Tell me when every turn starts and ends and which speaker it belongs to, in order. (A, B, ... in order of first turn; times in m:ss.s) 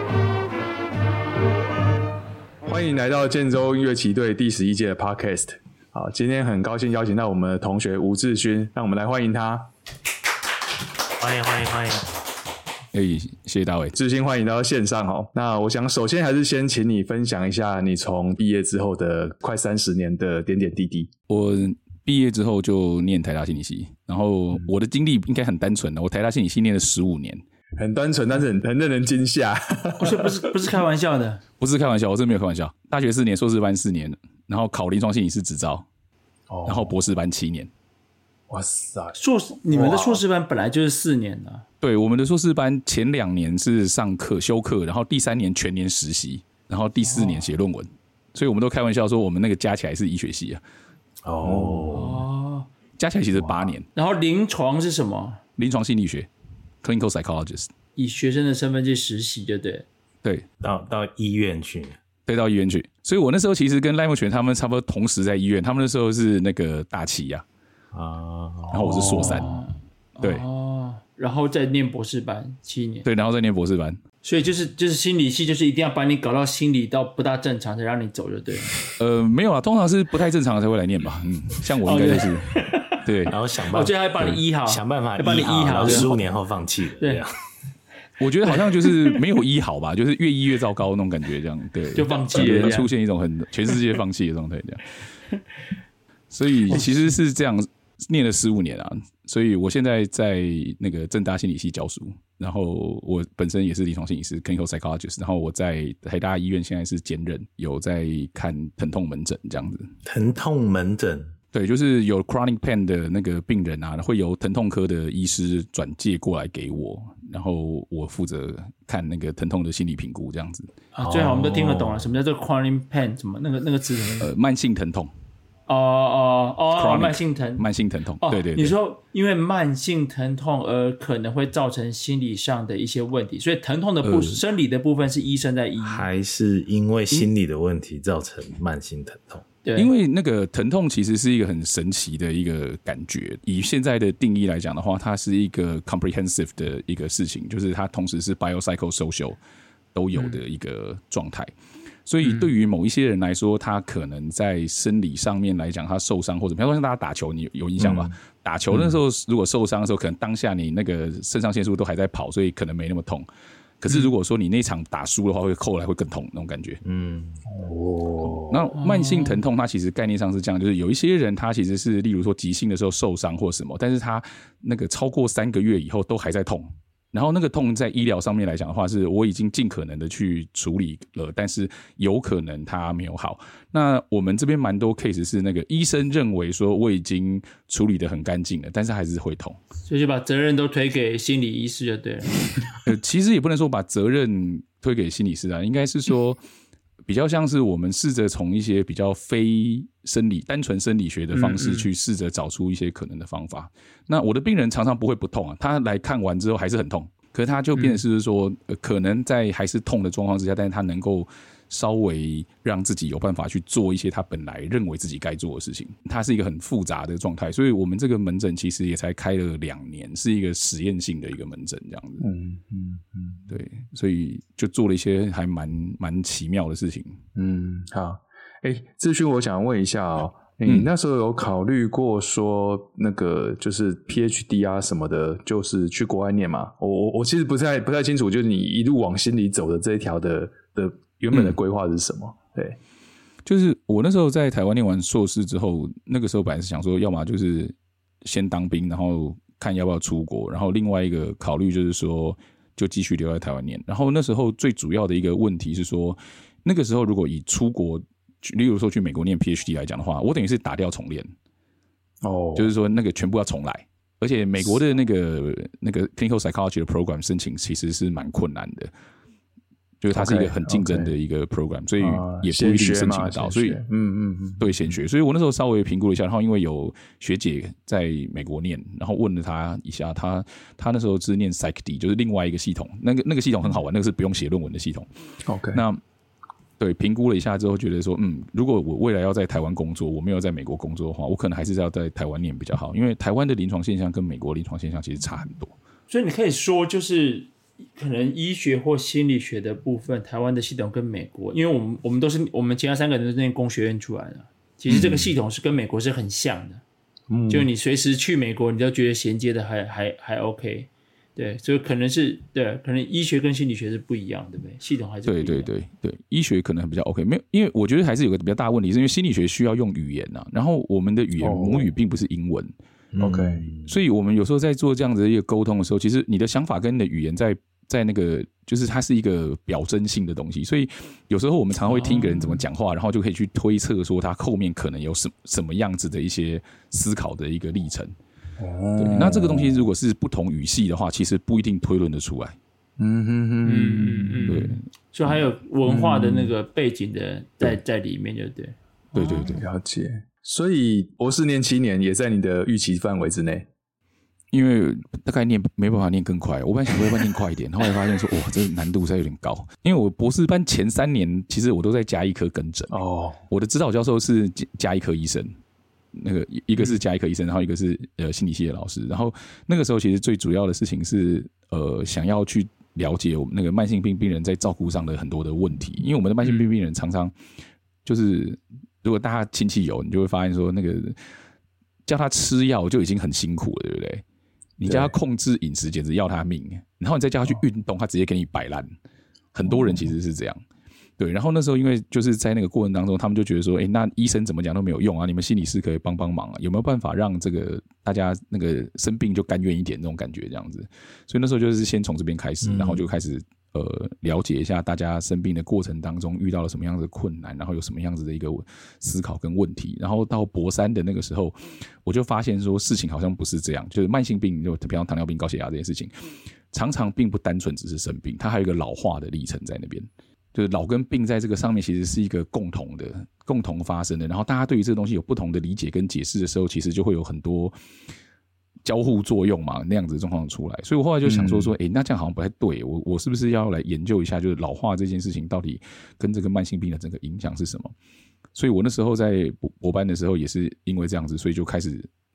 0:02.6-0:09.7 A
0:11.2-0:12.1 B
0:12.9-0:14.0 C
0:13.9-0:21.1 A
0:21.3-0:27.4 C
0:27.8-0:30.7 A
0:30.0-0:31.4 D
0:31.6-0:35.8 C
0:36.5-0:36.9 A
0:36.6-0:37.7 C
0:38.5-0:39.2 A
0:39.2-0:41.6 D
0:39.7-0:40.2 A
0:41.8-0:50.6 C
0:51.2-0:52.2 B
0:51.4-0:52.0 A
0:51.9-0:52.7 D
0:53.0-0:53.9 C
0:53.3-0:53.7 B
0:53.9-0:55.4 D
0:55.6-0:56.3 C
0:56.8-0:57.7 C
0:58.0-0:59.8 D
1:00.6-1:02.0 B
1:02.2-1:07.4 C
1:07.9-1:09.4 B
1:08.7-1:09.6 C
1:08.8-1:13.0 D
1:13.0-1:14.0 C
1:14.2-1:18.8 D
1:19.0-1:23.3 C
1:21.8-1:23.1 D
1:23.2-1:27.4 B
1:23.6-1:26.2 D
1:27.0-1:27.3 D
1:28.2-1:35.0 C
1:28.4-1:29.2 D
1:31.9-1:32.9 D
1:32.3-1:32.9 A
1:36.3-1:49.9 C
1:50.0-1:51.3 B
1:51.5-2:00.7 C
2:00.9-2:04.3 D
2:01.0-2:02.2 B
2:04.2-2:05.1 C
2:05.7-2:07.6 D
2:06.7-2:08.7 C
2:08.2-2:16.1 D
2:14.0-2:14.4 C
2:15.8-2:19.4 B
2:19.6-2:19.9 D
2:19.7-2:29.4 C
2:29.9-2:31.5 C
2:32.0-2:43.3 C
2:32.2-2:32.5 D
2:37.8-2:38.1 B
2:43.8-2:46.8 C
2:46.8-2:48.7 B
2:48.2-3:09.6 C
2:48.8-2:49.4 D
3:09.9-3:12.5 D
3:12.8-3:16.4 C
3:17.0-3:42.2 C
3:21.3-3:21.9 D
3:27.8-3:28.0 D
3:42.2-3:43.4 A
3:43.5-3:47.2 C
3:47.4-4:02.8 A
4:03.4-4:21.3 C
4:22.2-4:22.7 A
4:22.5-4:28.9 C
4:30.0-4:33.8 C
4:30.1-4:31.1 A
4:32.0-4:34.9 A
4:34.6-4:45.1 C
4:45.4-4:45.8 A
4:45.7-4:46.0 C
4:46.8-4:55.7 C
4:56.1-5:06.8 D
5:04.9-5:05.3 A
5:07.3-5:07.7 A
5:07.5-5:15.7 D
5:15.2-5:22.7 C
5:21.4-5:21.9 A
5:23.1-5:23.9 B
5:23.2-5:23.7 A
5:23.8-5:38.1 C
5:31.9-5:32.6 D
5:38.6-5:39.9 A
5:39.0-5:42.6 C
5:43.0-5:44.7 A
5:43.6-5:49.6 D
5:44.5-5:44.8 C
5:45.8-5:46.5 A
5:49.1-5:49.6 C
5:49.5-5:53.7 A
5:54.5-6:03.0 C
6:02.9-6:03.4 A
6:03.5-6:05.6 C
6:06.1-6:17.3 C
6:16.4-6:16.7 D
6:18.0-6:21.2 C
6:22.0-6:24.2 C
6:24.8-6:28.9 C
6:24.8-6:25.1 A
6:29.5-6:30.6 C
6:29.7-6:30.1 A
6:31.2-6:56.1 C
6:42.6-6:43.1 B
6:56.7-7:07.8 C
7:08.8-7:17.9 C
7:11.2-7:11.8 A
7:18.5-7:22.1 C